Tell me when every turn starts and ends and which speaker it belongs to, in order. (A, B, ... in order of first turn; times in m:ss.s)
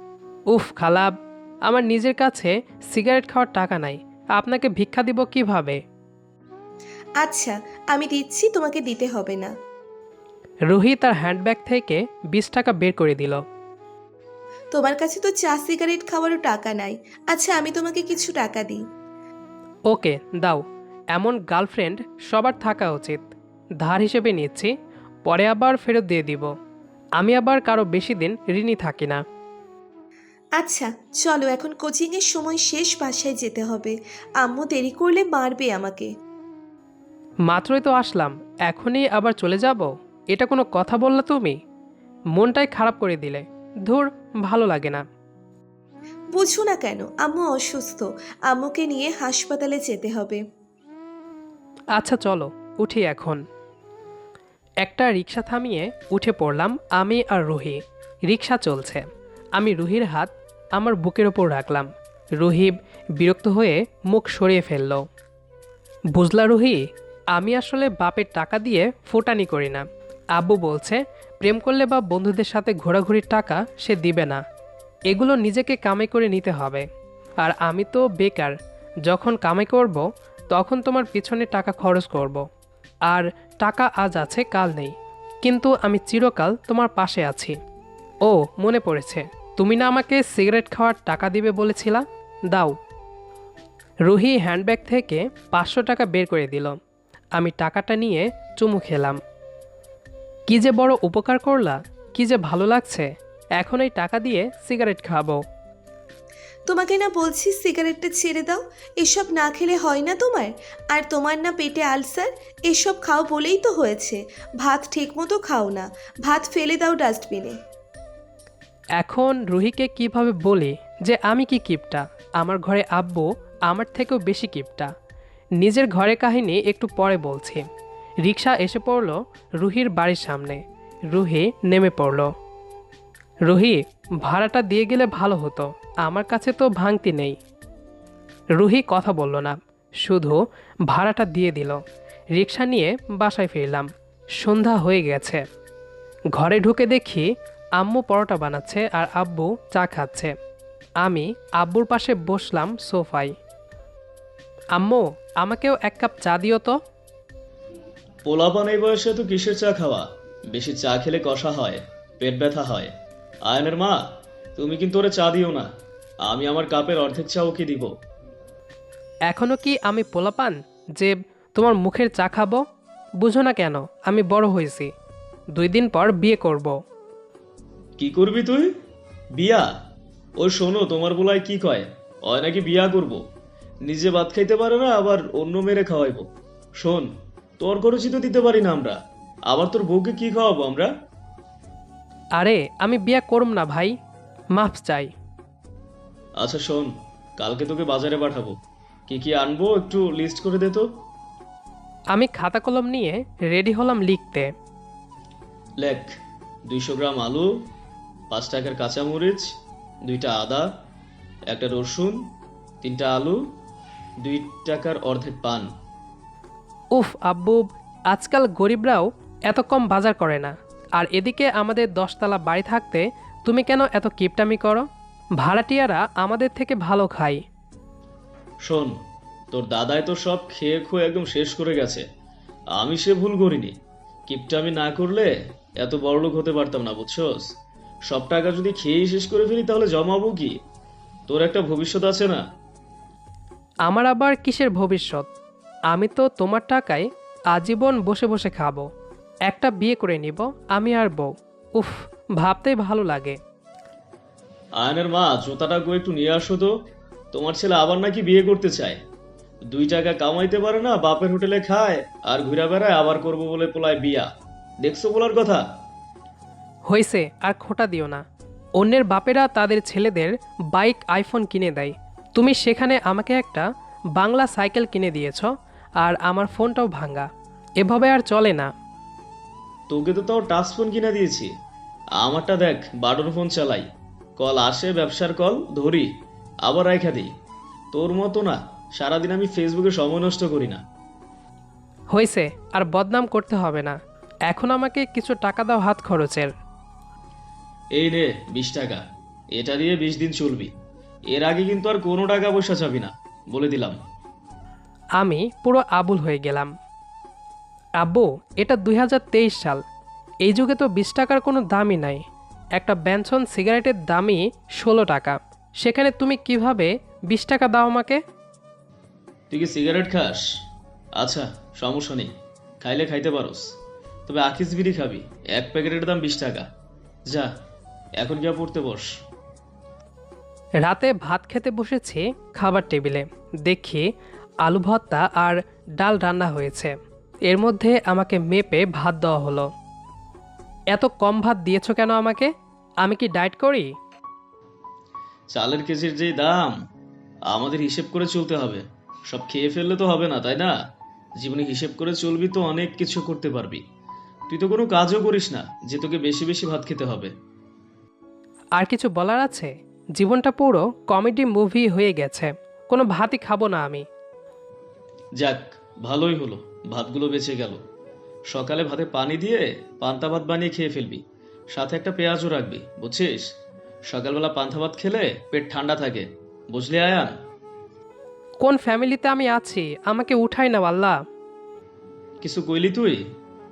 0:00.5-0:05.8 A
0:07.2-0:09.5 B
0:10.7-0:13.4 A
0:14.7-0:18.8 B
0:19.9-0:20.6 A
0:21.1-0:24.7 A
0:25.2-0:26.5 A
0:27.2-0:29.2 A
0:30.6-0:36.1 B
0:37.5-0:41.6 A
0:42.4-0:45.0 A
0:46.4-0:50.4 B
0:52.0-0:53.4 A
0:54.8-0:59.0 A
0:59.6-1:05.0 A
1:06.1-1:09.8 A
1:10.4-1:14.4 A
1:15.1-1:16.9 A
1:17.4-1:18.6 A
1:19.1-1:22.4 A
1:23.1-1:27.6 A
1:28.2-1:32.8 A
1:34.1-1:36.8 A
1:37.4-1:39.2 A
1:40.5-1:45.4 A
1:46.7-1:57.6 B
1:59.0-2:04.9 A
2:05.6-2:07.6 A
2:08.2-2:12.3 A
2:13.5-2:17.4 A
2:18.6-2:21.8 A
2:22.4-2:23.9 A
2:24.4-2:25.4 A
2:26.4-2:30.3 A
2:31.0-2:33.4 A
2:34.8-2:36.8 A
2:38.3-2:42.9 C
2:43.5-2:44.0 C
2:44.6-2:45.7 C
2:46.3-2:47.9 C
2:49.3-2:52.6 A
2:53.2-2:54.9 A
2:55.6-2:56.8 A
2:58.0-2:58.7 C
2:59.4-2:59.7 C
3:00.4-3:03.2 C
3:03.8-3:06.3 C
3:06.8-3:09.0 C
3:09.5-3:10.9 C
3:12.4-3:14.0 A
3:14.6-3:15.1 A
3:16.4-3:18.6 C
3:19.1-3:20.9 C
3:22.1-3:24.5 A
3:25.8-3:26.1 C
3:26.7-3:27.5 C
3:28.3-3:29.5 C
3:30.1-3:30.7 C
3:31.5-3:32.2 C
3:32.8-3:33.4 C
3:34.2-3:35.7 C
3:37.0-3:44.9 A
3:45.4-3:47.4 A
3:48.7-3:49.0 C
3:49.5-3:52.0 C
3:52.8-3:53.8 C
3:54.3-3:57.5 C
3:58.1-4:00.6 C
4:01.3-4:02.4 C
4:03.9-4:05.3 A
4:05.9-4:08.8 A
4:09.5-4:13.4 A
4:14.8-4:16.7 C
4:17.3-4:19.0 C
4:19.7-4:24.3 C
4:24.8-4:25.6 C
4:26.9-4:28.2 A
4:28.8-4:33.7 A
4:34.2-4:37.3 A
4:37.8-4:38.7 A
4:39.9-4:41.5 C
4:42.2-4:46.1 C
4:46.6-4:47.3 C
4:47.9-4:50.8 C
4:52.1-4:54.0 A
4:54.5-4:56.5 A
4:58.0-4:59.0 C
4:59.6-5:00.7 C
5:01.3-5:04.0 C
5:05.2-5:06.7 A
5:08.0-5:09.8 A
5:10.4-5:12.2 A
5:12.8-5:18.2 A
5:19.5-5:20.4 C
5:21.2-5:22.3 C
5:22.8-5:23.6 C
5:24.3-5:26.7 C
5:28.2-5:29.1 C
5:30.8-5:34.1 A
5:34.6-5:36.9 A
5:37.5-5:39.7 A
5:40.9-5:42.5 A
5:43.0-5:43.9 A
5:45.5-5:46.8 C
5:47.5-5:50.7 C
5:51.4-5:53.8 C
5:54.5-5:57.3 C
5:58.8-6:04.1 A
6:05.4-6:07.8 C
6:08.5-6:11.2 C
6:11.7-6:13.5 C
6:14.1-6:17.3 C
6:18.6-6:21.2 A
6:22.4-6:23.2 C